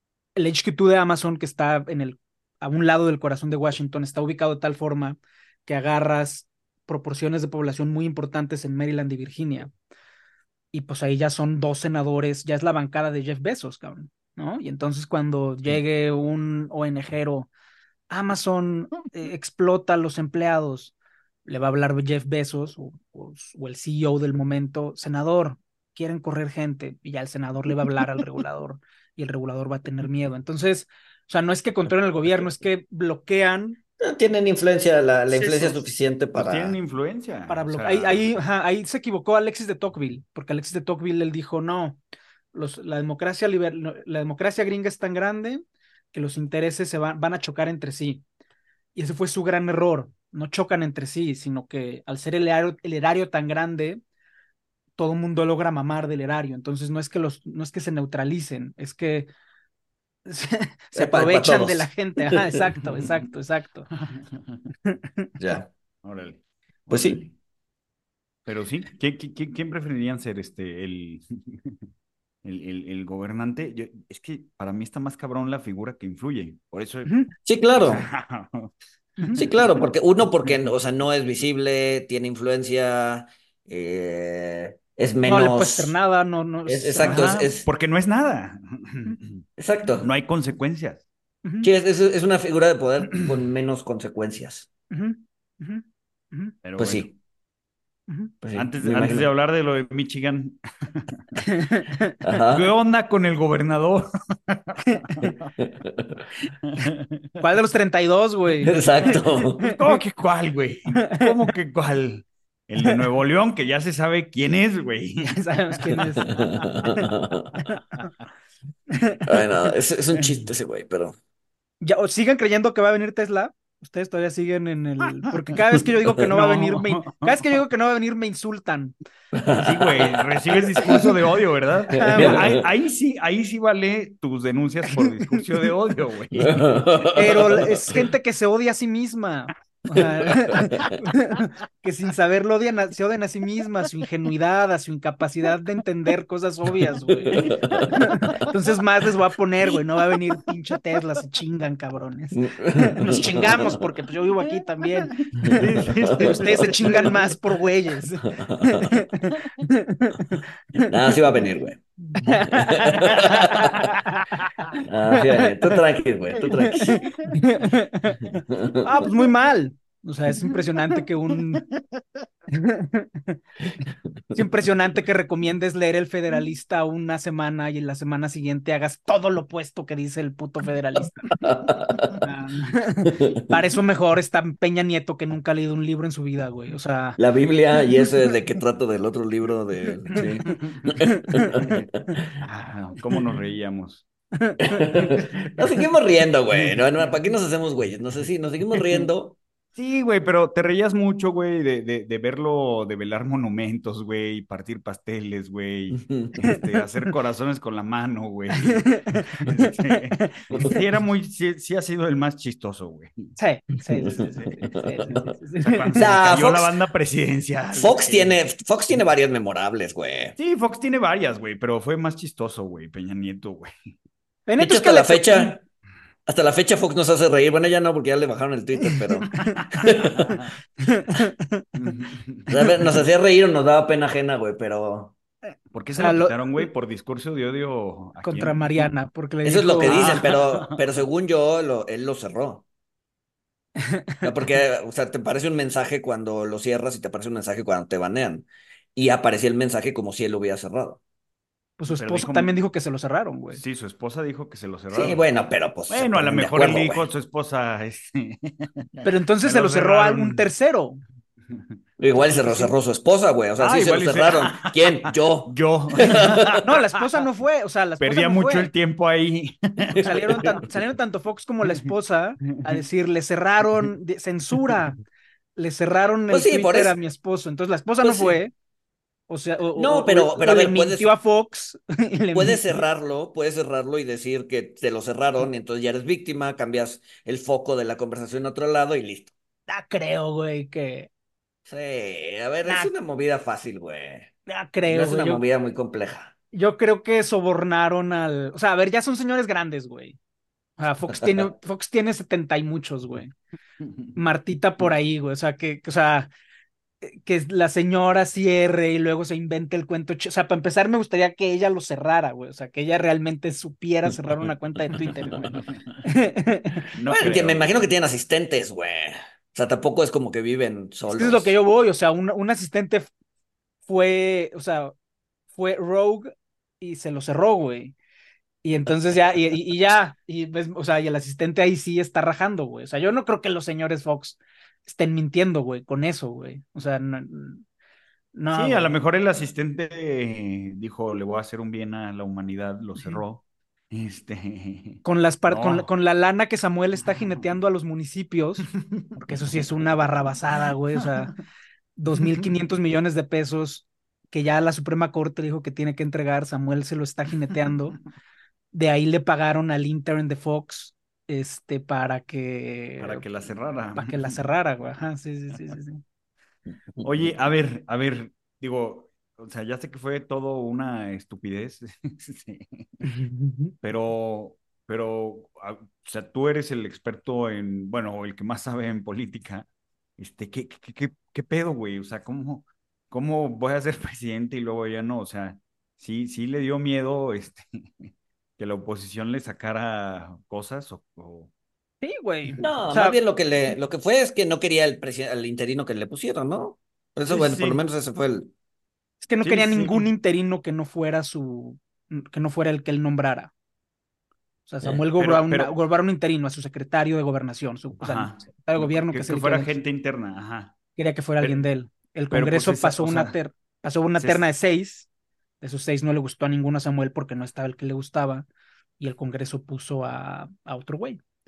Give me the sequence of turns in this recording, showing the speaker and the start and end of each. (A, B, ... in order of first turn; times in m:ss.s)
0:00.3-0:09.7 A
0:10.7-0:17.5 A
0:18.1-0:20.9 A
0:21.4-0:33.8 A
0:34.0-0:36.8 B
0:35.4-0:35.8 C
0:36.3-0:38.4 C
0:37.5-0:42.0 A
0:42.5-0:48.2 A
0:48.9-0:54.0 A
0:55.0-0:59.3 A
1:00.2-1:03.9 A
1:00.9-1:02.6 B
1:04.0-1:04.6 C
1:04.8-1:05.2 A
1:05.4-1:05.7 B
1:06.0-1:07.3 C
1:06.9-1:07.2 B
1:08.4-1:11.8 C
1:12.4-1:17.1 C
1:17.4-1:18.1 B
1:17.7-1:18.7 C
1:19.2-1:19.4 A
1:19.4-1:26.0 B
1:25.3-1:27.3 A
1:26.6-1:27.7 B
1:27.0-1:29.4 C
1:29.6-1:30.1 B
1:30.0-1:31.0 C
1:31.4-1:31.7 A
1:31.6-1:34.7 B
1:34.9-1:36.6 A
1:36.6-1:37.1 C
1:36.8-1:37.1 B
1:38.1-1:38.3 A
1:38.4-1:39.2 B
1:38.5-1:41.2 C
1:41.4-1:41.9 A
1:42.2-1:42.7 B
1:42.5-1:45.3 C
1:45.2-1:46.2 B
1:46.8-1:47.4 C
1:47.4-1:50.0 A
1:48.6-1:49.7 B
1:49.6-1:56.1 C
1:51.0-1:51.3 A
1:55.2-1:56.3 A
1:56.2-1:57.6 B
1:57.7-1:58.0 A
1:58.9-1:59.2 A
1:59.3-2:01.1 B
2:00.2-2:00.4 C
2:01.8-2:08.9 A
2:06.3-2:07.6 C
2:09.3-2:11.1 B
2:09.5-2:17.0 C
2:11.9-2:12.6 A
2:11.9-2:12.6 B
2:14.9-2:15.4 A
2:16.4-2:18.0 B
2:17.1-2:35.6 A
2:20.2-2:21.0 B
2:27.2-2:28.4 B
2:27.7-2:28.5 C
2:32.4-2:33.8 B
2:35.3-2:37.3 C
2:35.4-2:37.1 B
2:36.2-2:40.9 A
2:38.2-2:38.9 B
2:40.9-2:41.8 B
2:42.2-2:44.2 A
2:42.5-2:43.8 B
2:43.0-2:44.7 C
2:44.8-2:47.1 B
2:46.6-2:51.6 A
2:48.5-2:48.7 B
2:51.6-2:52.2 C
2:52.5-2:53.4 A
2:54.3-3:01.3 A
3:01.3-3:02.2 B
3:02.2-3:07.2 A
3:07.2-3:12.4 B
3:11.2-3:11.5 A
3:12.4-3:14.0 C
3:14.4-3:15.3 A
3:14.6-3:19.4 B
3:16.5-3:16.8 C
3:19.7-3:33.3 C
3:25.9-3:26.6 B
3:28.9-3:30.8 A
3:30.5-3:30.8 B
3:33.4-3:36.0 A
3:34.0-3:35.3 B
3:34.2-3:38.4 C
3:35.9-3:36.7 B
3:37.8-3:40.3 B
3:40.4-3:43.9 C
3:44.5-3:45.5 A
3:44.6-3:45.6 B
3:46.3-3:50.4 B
3:48.9-3:49.6 A
3:49.5-3:50.5 C
3:50.8-3:51.6 A
3:51.8-3:53.0 C
3:52.5-3:55.1 B
3:55.7-3:58.8 C
3:56.0-3:56.7 A
3:58.2-4:00.2 A
3:59.4-4:02.6 B
3:59.8-4:00.8 C
4:03.8-4:04.2 A
4:04.2-4:11.0 B
4:11.8-4:13.6 A
4:11.9-4:12.6 C
4:13.5-4:15.2 C
4:14.9-4:17.1 B
4:15.9-4:20.4 C
4:19.0-4:21.0 A
4:21.5-4:21.7 C
4:22.0-4:26.6 B
4:22.3-4:22.7 C
4:23.6-4:26.8 C
4:26.6-4:28.7 A
4:28.0-4:30.0 C
4:29.9-4:30.6 B
4:30.0-4:35.0 A
4:35.6-4:38.5 A
4:36.3-4:37.0 B
4:38.0-4:38.4 B
4:39.3-4:42.6 A
4:39.8-4:41.1 B
4:42.3-4:49.3 B
4:49.7-4:51.1 A
4:51.7-4:54.3 B
4:52.6-4:52.9 A
4:54.5-4:55.4 A
4:54.9-4:56.3 B
4:56.5-5:00.2 A
5:00.8-5:03.3 A
5:04.2-5:06.3 A
5:07.0-5:16.8 A
5:17.0-5:17.8 C
5:17.1-5:21.5 B
5:21.1-5:23.1 A
5:23.8-5:24.9 A
5:25.5-5:27.9 A
5:28.6-5:37.6 A
5:38.3-5:38.9 A
5:38.5-5:45.9 C
5:45.0-5:51.3 A
5:48.9-5:49.2 C
5:52.0-5:58.0 A
5:52.1-5:52.5 C
5:58.7-6:03.2 A
6:03.0-6:04.4 C
6:03.9-6:06.0 A
6:07.0-6:13.0 C
6:13.0-6:13.7 A
6:13.8-6:19.6 C
6:20.2-6:31.5 C
6:32.0-6:33.2 A
6:32.6-6:38.5 B
6:37.3-6:37.8 C
6:39.2-6:43.5 A
6:39.4-6:40.1 C
6:44.7-6:49.8 A
6:45.2-6:45.7 C
6:48.0-6:50.8 C
6:51.0-6:55.1 A
6:52.3-6:53.4 C
6:54.2-6:54.4 C
6:55.6-6:58.5 A
6:59.0-7:01.2 A